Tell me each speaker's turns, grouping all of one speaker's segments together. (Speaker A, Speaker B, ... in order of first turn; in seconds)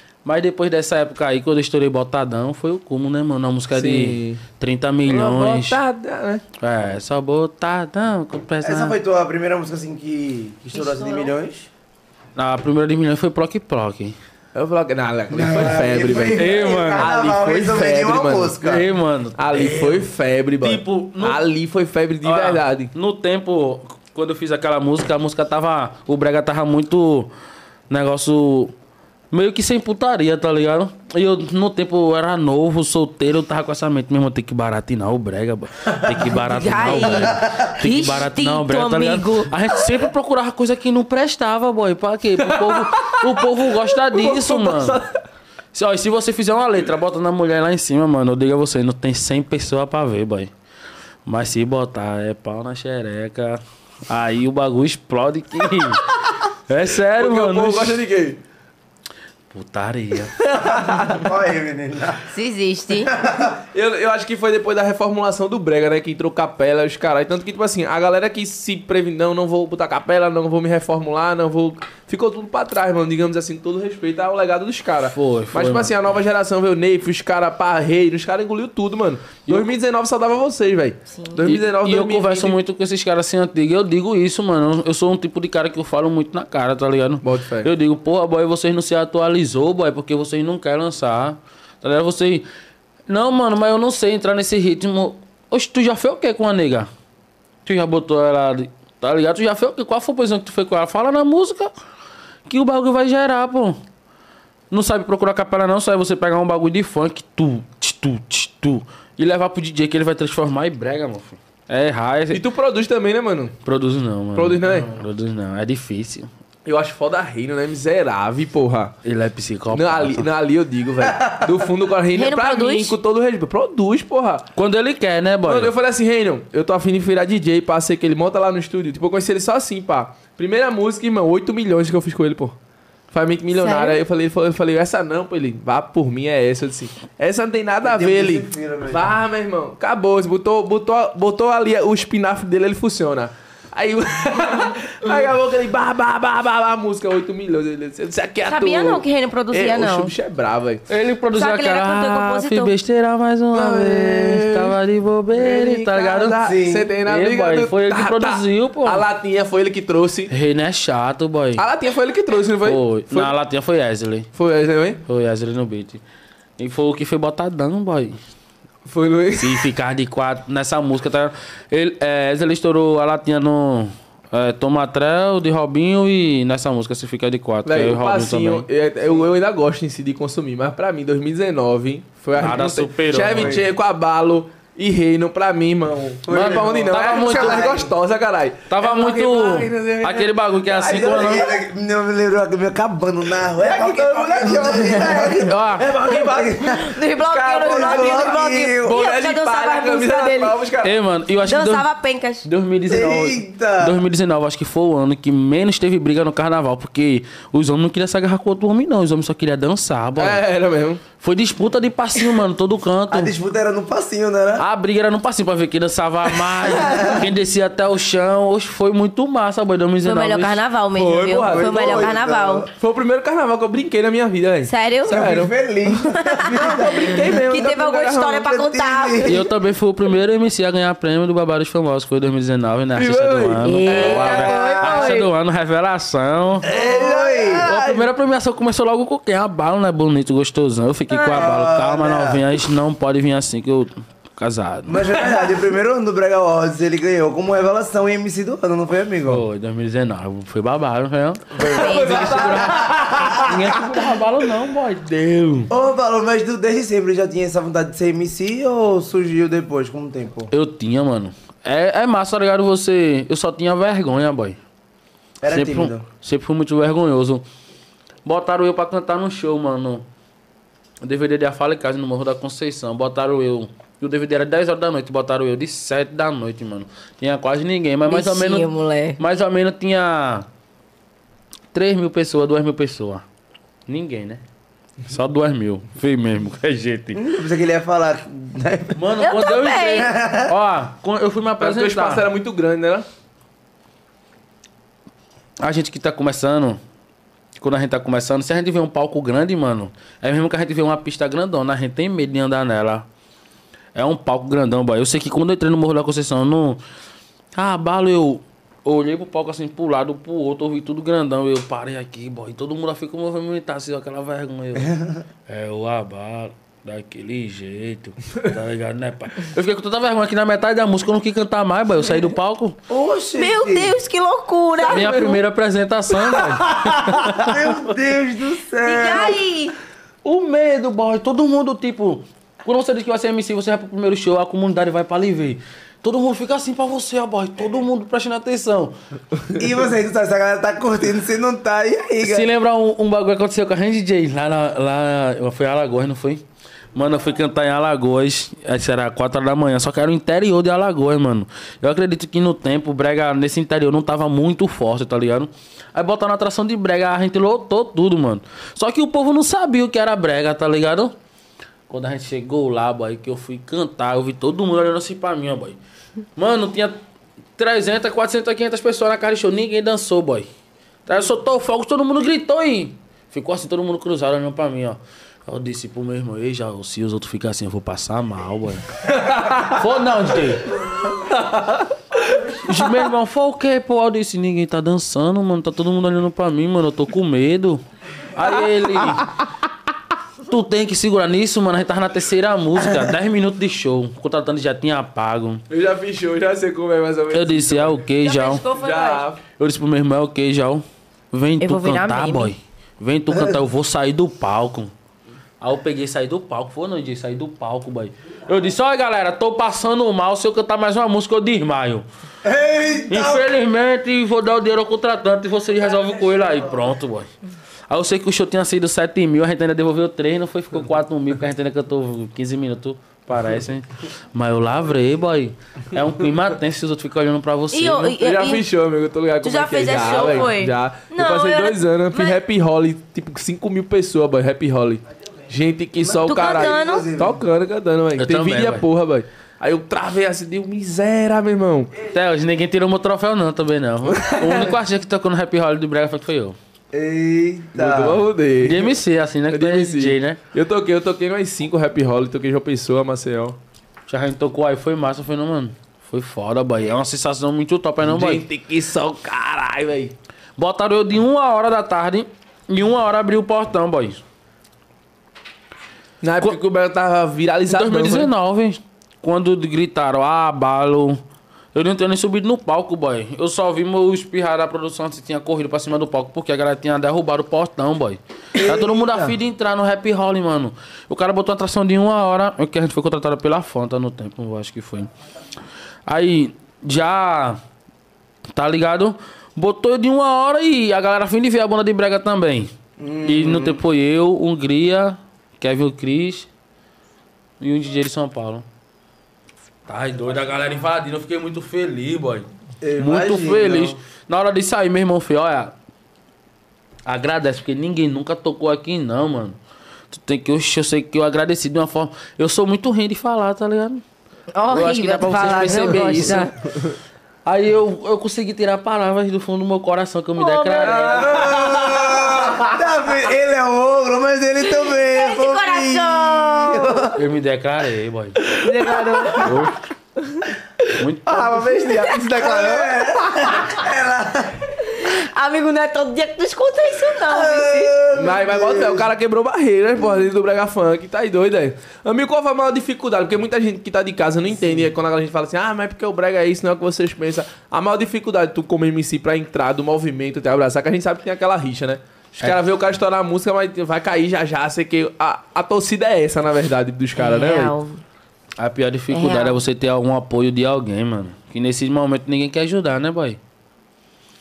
Speaker A: 0.2-5.8, 6.6-8.9, 12.3-14.2, 16.3-17.1, 18.6-20.0, 20.6-21.4, 22.2-27.3, 27.9-28.7, 29.3-45.0, 45.7-50.5, 51.2-58.0, 59.5-60.3, 75.1-75.9, 81.4-92.5, 93.1-96.9, 97.6-101.7, 102.5-103.8, 104.7-112.4, 113.6-116.3, 119.0-120.3, 124.5-125.7, 150.9-156.3, 157.1-159.1, 160.3-161.6, 162.6-164.3, 165.1-166.0, 166.6-168.2, 169.4-178.7, 182.4-183.6, 186.3-187.7, 188.7-191.5, 195.4-195.9, 200.8-201.9, 202.4-210.4, 211.2-213.3, 214.6-220.6, 229.3-236.7, 237.6-245.1, 249.3-255.7, 260.5-264.6, 265.5-267.4, 268.2-270.0, 271.0-280.5, 281.7-283.2, 283.9-284.4, 285.1-287.2, 288.9-292.3, 295.6-296.8, 297.6-303.1, 303.9-306.8, 307.6-314.9, 315.5-322.8, 324.9-327.6, 330.2-338.9, 342.2-346.4, 346.9-361.1, 361.9-365.8, 366.4-367.0, 367.6-370.5, 371.1-378.9, 379.4-380.8, 382.5-387.8, 388.3-389.3, 390.5-395.6, 397.3-398.6, 399.5-404.9, 405.6-412.0, 413.1-417.3, 417.9-428.1, 438.2-438.8, 442.1-446.6, 448.6-450.4, 454.1-458.4, 460.6-464.2, 467.7-471.2, 471.7-485.1, 486.1-487.6, 488.5-492.7, 493.2-496.5, 497.6-498.6, 499.9-502.5, 503.0-505.7, 507.1-509.6, 510.1-514.0, 514.7-516.5, 517.4-521.2, 527.1-528.4, 529.4-529.8, 531.0-531.6, 558.6-563.4
Speaker B: 3.7-4.4, 5.0-6.4, 14.5-18.6, 19.4-22.9, 42.4-45.1, 57.1-58.4, 60.4-61.3, 63.5-82.6, 87.2-87.7, 112.3-113.5, 114.3-114.9, 116.6-118.9, 119.7-124.5, 125.5-132.6, 133.1-150.8, 153.5-154.7, 155.3-160.3, 161.6-163.3, 164.3-165.0, 168.8-169.7, 177.6-191.6, 193.6-200.9, 210.2-211.0, 220.9-222.2, 222.7-225.5, 226.5-228.5, 232.9-235.2, 236.6-238.1, 251.6-253.8, 291.6-293.1, 324.8-325.4, 379.1-379.8, 380.8-382.9, 388.5-389.2, 395.7-398.0, 398.7-399.4, 428.2-441.9, 444.1-444.8, 447.7-448.9, 449.5-453.6, 458.0-460.1, 466.2-468.3, 520.8-522.8, 528.8-529.4, 531.5-532.4, 538.1-557.7
Speaker C: 8.6-11.7, 15.3-18.9, 37.1-37.7, 61.0-62.3, 63.0-63.5, 121.0-121.5, 137.8-139.1, 156.4-156.9, 183.3-183.6, 186.2-187.9, 190.8-198.9, 202.8-204.0, 213.1-214.7, 216.5-217.3, 221.5-222.7, 225.1-227.7, 228.4-229.5, 236.7-237.7, 241.1-242.5, 244.9-249.4, 252.4-253.4, 255.7-260.5, 265.4-266.0, 287.1-289.2, 289.9-290.5, 314.8-315.2, 322.9-324.0, 327.3-329.4, 339.6-342.5, 403.3-403.6, 412.4-413.5, 436.1-437.4, 446.9-448.3, 478.5-479.4, 493.0-493.8, 502.8-504.0, 521.1-527.2, 531.3-534.7, 537.2-539.1
Speaker D: 10.7-11.3, 36.2-39.5, 62.3-63.1, 81.1-81.4, 122.1-123.0, 133.6-134.0, 148.5-150.1, 151.3-152.7, 196.8-200.6, 201.4-202.5, 220.0-222.7, 224.7-225.2, 226.0-229.5, 233.6-235.3, 251.6-252.7, 278.1-279.2, 289.2-290.1, 323.4-325.4, 328.8-329.8, 398.2-399.2, 401.6-402.5, 427.7-428.6, 429.4-432.4, 436.2-437.1, 514.5-516.5, 520.4-521.5, 524.7-527.1, 528.5-529.6, 531.7-532.9, 534.8-537.9, 557.2-558.0, 559.1-559.6